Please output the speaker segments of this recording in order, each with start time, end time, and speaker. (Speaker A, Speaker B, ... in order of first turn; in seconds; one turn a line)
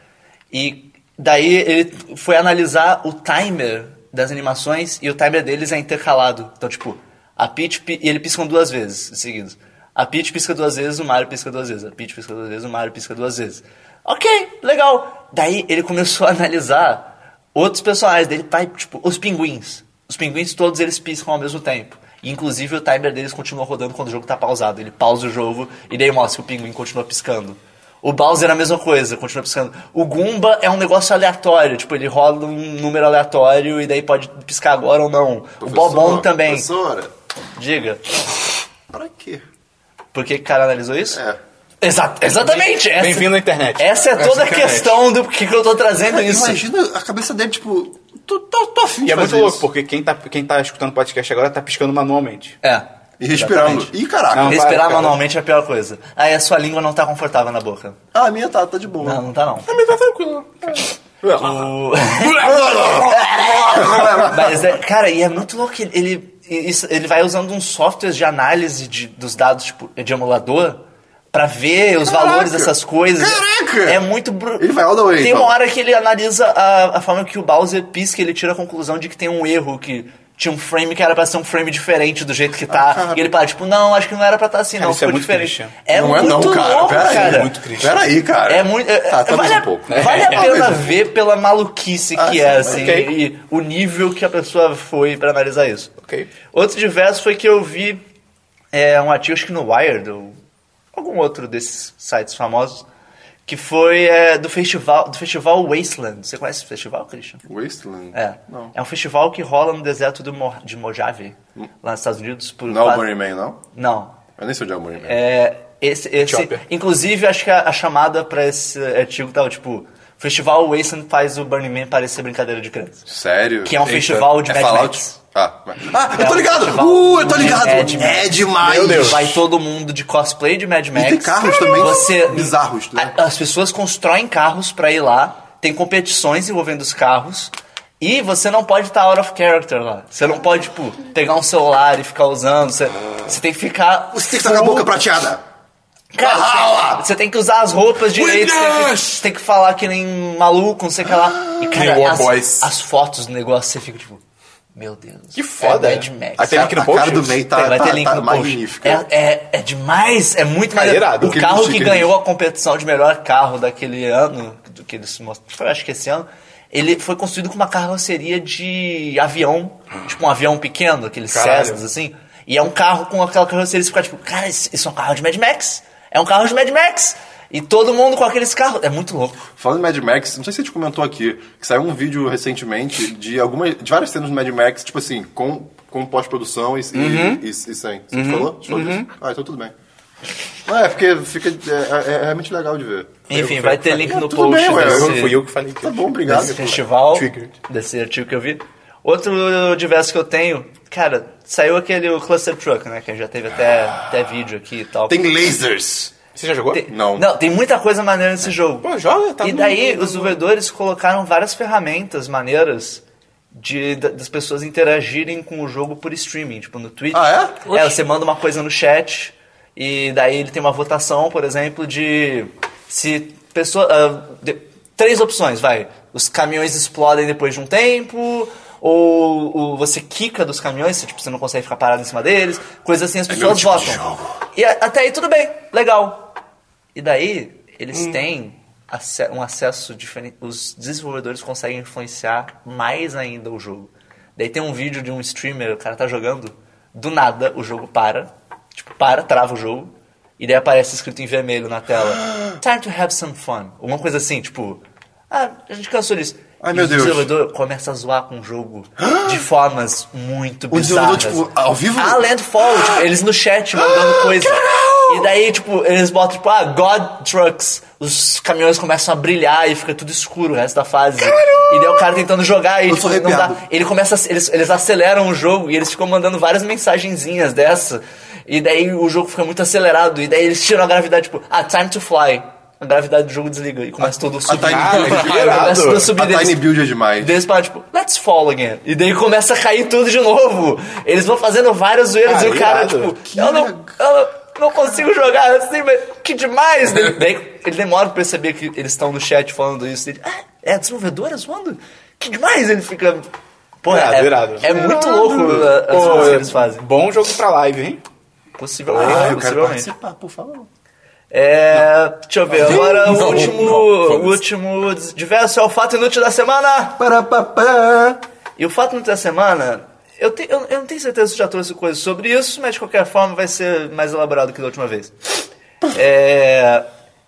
Speaker A: 0.5-36.7
Speaker B: 35.6-37.1
Speaker A: 37.5-38.2
Speaker B: 38.9-39.4
Speaker A: 40.1-41.2
Speaker B: 41.1-41.4
Speaker A: 41.8-46.6
Speaker C: 42.4-43.9
Speaker D: 44.2-45.0
Speaker B: 46.1-49.6
Speaker C: 49.0-52.6
Speaker A: 52.6-53.9
Speaker B: 53.2-54.7
Speaker C: 54.3-55.2
Speaker A: 54.4-58.0
Speaker B: 58.1-59.2
Speaker A: 59.0-59.7
Speaker D: 59.6-60.9
Speaker C: 61.2-61.5
Speaker A: 61.3-70.8
Speaker D: 62.2-64.1
Speaker B: 62.4-64.6
Speaker A: 71.3-87.5
Speaker B: 72.0-74.0
Speaker B: 74.6-75.5
Speaker B: 82.7-83.2
Speaker C: 84.8-85.7
Speaker B: 85.9-91.0
Speaker C: 86.8-88.1
Speaker A: 88.5-95.9
Speaker C: 89.9-90.7
Speaker B: 92.2-93.1
Speaker C: 92.7-93.1
Speaker C: 96.0-96.3
Speaker A: 96.5-98.0
Speaker A: 98.7-100.4
Speaker A: 100.9-102.8
Speaker A: 103.5-107.4
Speaker B: 107.4-108.7
Speaker A: 108.1-113.1
Speaker B: 112.7-113.6
Speaker A: 113.7-114.2
Speaker B: 114.4-115.2
Speaker A: 115.0-123.1
Speaker C: 116.2-116.6
Speaker B: 123.1-123.8
Speaker A: 123.6-125.2
Speaker D: 123.8-124.3
Speaker B: 124.4-129.4
Speaker A: 126.1-144.9
Speaker C: 128.6-129.4
Speaker B: 130.9-133.1
Speaker B: 144.1-145.4
Speaker A: 146.1-154.2
Speaker B: 146.2-147.1
Speaker D: 148.1-149.2
Speaker D: 151.7-152.7
Speaker A: 154.7-156.8
Speaker C: 155.3-157.4
Speaker B: 156.5-159.0
Speaker A: 157.5-179.4
Speaker C: 160.7-161.4
Speaker B: 161.2-162.1
Speaker C: 171.3-171.8
Speaker B: 179.6-189.7
Speaker C: 186.9-187.4
Speaker C: 188.1-189.1
Speaker B: 190.7-193.2
Speaker A: 193.3-195.4
Speaker C: 193.3-197.5
Speaker B: 194.1-196.8
Speaker A: 196.2-205.2
Speaker B: 205.1-206.1
Speaker C: 206.3-206.8
Speaker A: 206.7-208.9
Speaker B: 206.9-207.3
Speaker C: 208.8-210.4
Speaker A: 209.4-213.0
Speaker A: 213.5-234.0
Speaker B: 217.1-217.6
Speaker D: 217.7-217.9
Speaker B: 233.3-234.3
Speaker A: 234.5-236.3
Speaker A: 236.9-254.8
Speaker A: 255.3-303.2
Speaker B: 256.6-257.3
Speaker B: 259.0-259.4
Speaker B: 260.7-263.0
Speaker B: 263.8-265.3
Speaker B: 271.4-272.0
Speaker B: 272.9-273.6
Speaker B: 284.0-287.4
Speaker C: 284.5-286.1
Speaker D: 284.9-285.3
Speaker C: 292.2-293.2
Speaker B: 293.2-293.9
Speaker A: 303.8-306.9
Speaker C: 303.9-308.0
Speaker B: 304.6-306.4
Speaker A: 308.6-309.9
Speaker C: 308.9-309.4
Speaker B: 308.9-310.7
Speaker A: 311.3-317.0
Speaker B: 312.6-313.6
Speaker D: 312.6-314.4
Speaker B: 317.0-318.2
Speaker A: 318.6-325.1
Speaker A: 325.9-326.9